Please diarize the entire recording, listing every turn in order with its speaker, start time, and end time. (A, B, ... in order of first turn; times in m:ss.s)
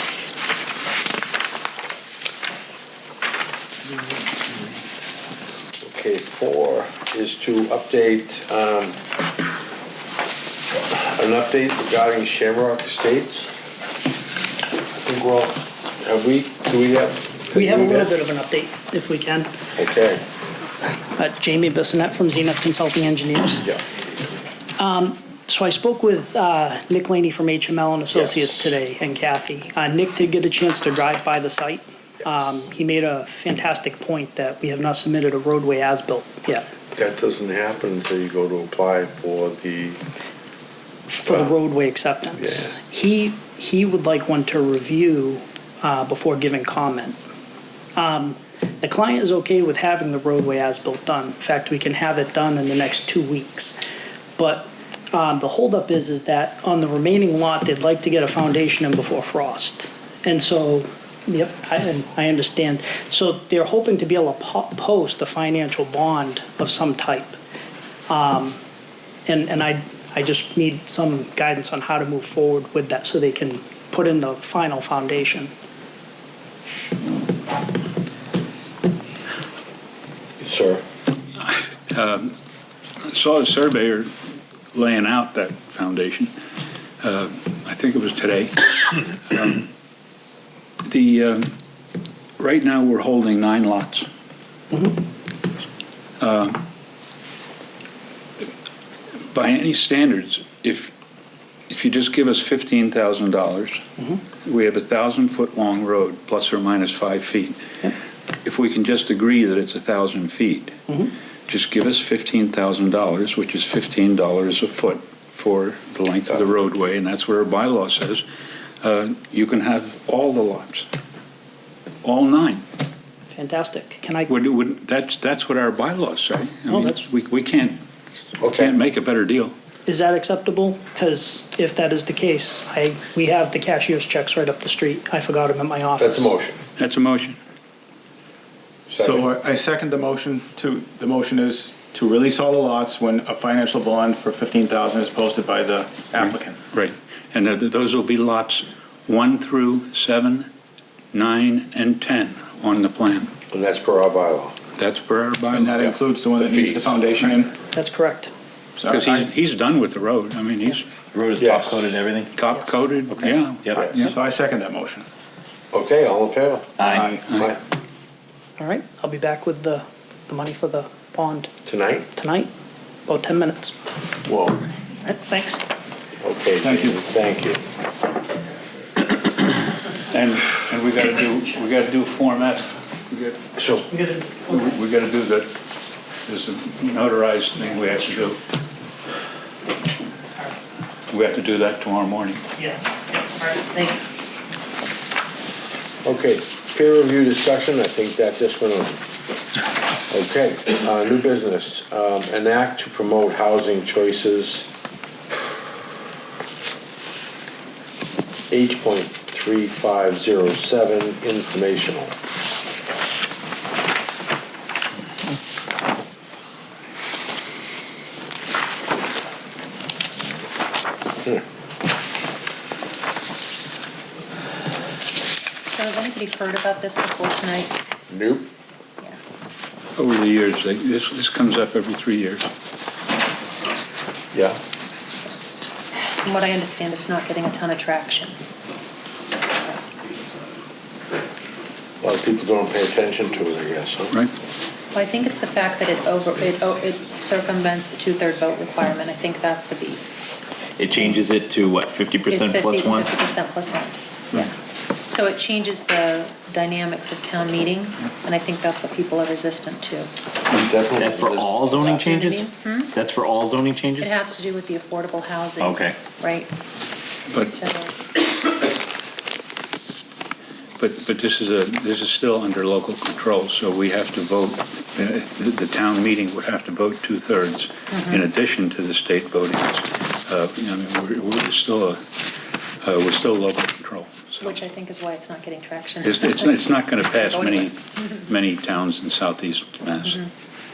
0:05.8-0:09.0 A
0:10.9-0:13.5 A
0:15.0-0:18.1 A
0:17.5-0:19.5 B
0:19.8-0:20.2 A
0:21.2-0:23.6 B
0:24.8-0:36.7 B
0:28.1-0:28.5 A
0:36.9-0:40.0 A
0:41.1-0:47.2 B
0:42.4-0:42.7 A
0:48.0-0:53.8 B
0:54.4-1:07.4 B
1:08.1-1:08.6 B
1:09.2-1:15.5 B
1:20.4-1:20.8 A
1:21.4-1:22.3 C
1:23.0-1:24.1 C
1:24.7-1:26.3 C
1:27.0-1:29.7 C
1:30.8-1:31.5 C
1:32.4-1:34.1 C
1:36.2-1:36.6 C
1:39.3-1:40.9 C
1:41.7-1:43.8 C
1:44.4-1:47.6 C
1:48.4-1:50.8 C
1:51.5-1:58.2 C
1:58.8-2:00.9 C
2:02.0-2:02.6 C
2:03.3-2:04.3 B
2:04.3-2:07.8 C
2:06.7-2:07.0 B
2:08.4-2:08.7 A
2:08.4-2:09.5 C
2:09.8-2:16.3 B
2:16.0-2:16.6 A
2:16.8-2:17.4 C
2:18.9-2:19.3 A
2:19.0-2:26.6 D
2:26.1-2:30.5 C
2:31.1-2:33.3 C
2:33.5-2:34.6 A
2:34.8-2:35.8 C
2:35.5-2:37.6 D
2:35.8-2:37.0 A
2:37.7-2:38.3 B
2:38.8-2:39.3 D
2:38.8-2:40.9 C
2:41.1-2:42.3 E
2:41.4-2:41.9 A
2:42.4-2:44.1 C
2:43.2-2:43.8 E
2:43.8-2:44.1 A
2:44.0-2:45.0 D
2:45.7-2:47.6 A
2:46.8-2:47.1 E
2:46.9-2:47.3 D
2:48.6-2:51.5 B
2:51.6-2:52.1 A
2:52.1-2:52.5 B
2:53.0-2:53.8 B
2:54.2-2:54.6 A
2:55.0-2:55.6 B
2:56.2-2:57.6 A
2:56.6-2:57.0 D
3:00.1-3:03.4 C
3:03.6-3:03.9 A
3:03.9-3:04.6 B
3:04.4-3:05.5 C
3:06.3-3:08.4 C
3:11.1-3:12.4 C
3:12.6-3:14.0 B
3:16.0-3:19.0 A
3:20.1-3:24.7 A
3:28.5-3:32.1 A
3:45.7-3:47.7 F
3:48.1-3:48.5 A
3:50.0-3:52.5 C
3:56.2-3:58.3 F
4:02.0-4:04.2 A
4:04.9-4:10.1 F
4:10.8-4:13.1 E
4:10.9-4:11.2 F
4:12.3-4:14.5 F
4:15.1-4:20.1 F
4:20.5-4:21.9 A
4:21.0-4:24.2 E
4:21.9-4:22.9 F
4:24.0-4:26.5 F
4:25.6-4:26.0 E
4:27.3-4:27.6 C
4:27.3-4:27.9 F
4:30.8-4:42.0 C
4:37.9-4:38.2 F
4:42.8-4:44.6 C
4:44.4-4:48.0 F
4:46.0-4:50.2 C